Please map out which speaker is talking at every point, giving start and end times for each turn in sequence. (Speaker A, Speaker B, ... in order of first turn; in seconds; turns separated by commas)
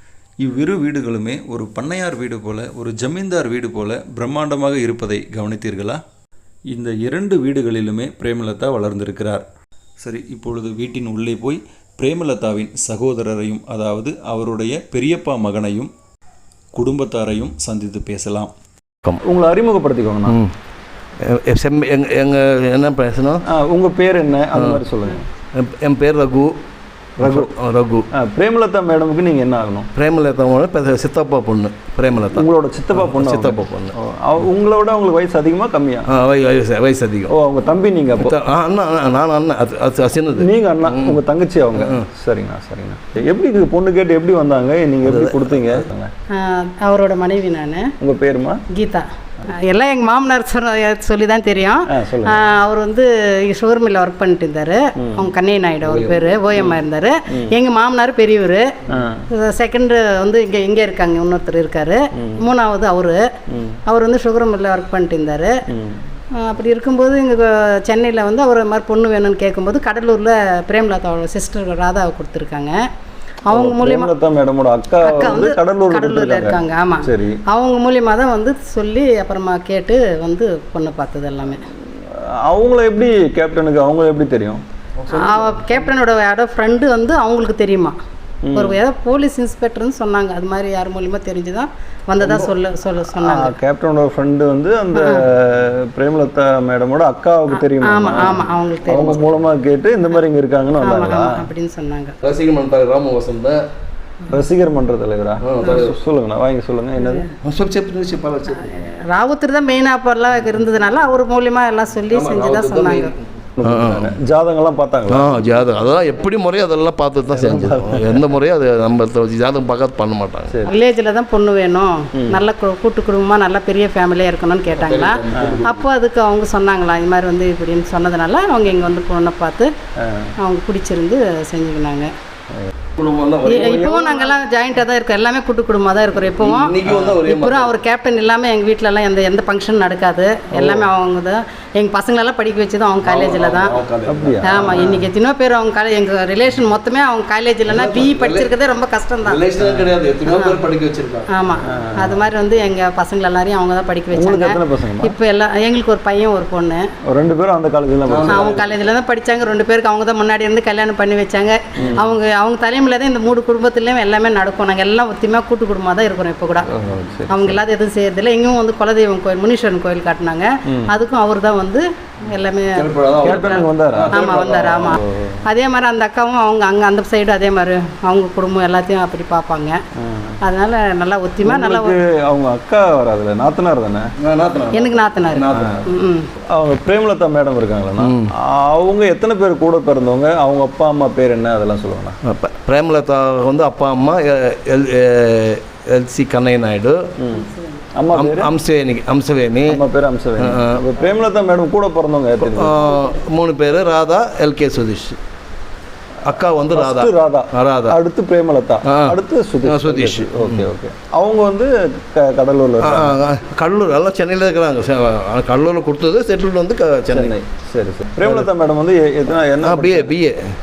Speaker A: 0.4-6.0, Speaker A: 6.7-9.4, Speaker A: 10.0-15.9, Speaker A: 16.8-18.5, Speaker B: 19.2-20.4, Speaker C: 21.2-23.4, Speaker B: 23.5-25.3, Speaker C: 25.6-26.5, Speaker B: 27.2-27.5, Speaker C: 27.2-28.1, Speaker B: 28.1-29.9, Speaker C: 29.9-33.9, Speaker B: 32.3-36.1, Speaker C: 36.1-37.3, Speaker B: 37.3-38.3, Speaker C: 38.2-41.2, Speaker B: 40.4-46.1, Speaker C: 41.8-42.0, Speaker C: 45.0-45.8, Speaker D: 46.3-47.9, Speaker B: 48.0-48.6, Speaker D: 48.7-58.6, Speaker B: 51.9-52.4, Speaker B: 55.0-55.3, Speaker C: 55.8-56.2, Speaker B: 58.9-59.2, Speaker D: 59.3-63.2, Speaker B: 62.1-62.4, Speaker B: 63.5-63.8, Speaker D: 63.9-65.5, Speaker B: 65.7-66.0, Speaker D: 66.4-72.7, Speaker D: 73.5-74.1, Speaker B: 73.5-77.4, Speaker D: 75.0-81.6, Speaker B: 82.1-84.6, Speaker C: 85.0-85.8, Speaker D: 85.1-87.9, Speaker B: 88.4-88.8, Speaker D: 88.5-93.5, Speaker B: 92.2-92.5, Speaker B: 93.1-101.3, Speaker D: 94.9-95.2, Speaker D: 97.8-99.3, Speaker D: 100.8-102.2, Speaker C: 102.2-103.6, Speaker B: 104.3-107.2, Speaker C: 105.4-105.9, Speaker C: 107.4-108.7, Speaker D: 108.5-113.1, Speaker C: 112.1-114.1, Speaker B: 113.6-115.3, Speaker C: 115.1-120.5, Speaker B: 117.3-118.2, Speaker D: 120.7-129.7, Speaker B: 122.2-122.4, Speaker C: 124.7-125.8, Speaker B: 125.3-125.6, Speaker B: 130.0-130.3, Speaker D: 130.4-132.1, Speaker C: 133.0-134.0, Speaker D: 133.4-143.8, Speaker B: 134.0-134.3, Speaker C: 136.4-137.7, Speaker B: 140.5-140.9, Speaker C: 143.0-145.0, Speaker B: 144.1-145.0, Speaker D: 144.4-149.4, Speaker C: 147.7-148.5, Speaker C: 149.2-151.3, Speaker D: 150.3-150.6, Speaker D: 151.3-156.8, Speaker B: 151.7-152.2, Speaker B: 154.1-155.2, Speaker B: 157.1-158.5, Speaker C: 158.1-158.7, Speaker D: 158.3-166.7, Speaker B: 161.8-162.0, Speaker B: 166.7-167.6, Speaker D: 167.3-179.8, Speaker B: 172.8-175.4, Speaker C: 172.9-175.0, Speaker B: 180.0-180.4, Speaker D: 180.5-182.0, Speaker B: 181.4-184.1, Speaker C: 184.2-185.9, Speaker D: 184.7-186.3, Speaker B: 186.5-192.2, Speaker C: 188.0-188.2, Speaker C: 192.2-196.9, Speaker B: 197.2-198.5, Speaker D: 197.3-197.8, Speaker C: 198.1-199.8, Speaker B: 199.7-202.8, Speaker C: 200.4-200.8, Speaker C: 202.4-205.2, Speaker D: 202.8-203.2, Speaker C: 206.2-207.9, Speaker B: 206.2-213.2, Speaker C: 208.9-210.7, Speaker C: 212.8-217.3, Speaker B: 217.1-220.1, Speaker C: 218.2-218.5, Speaker C: 219.6-220.3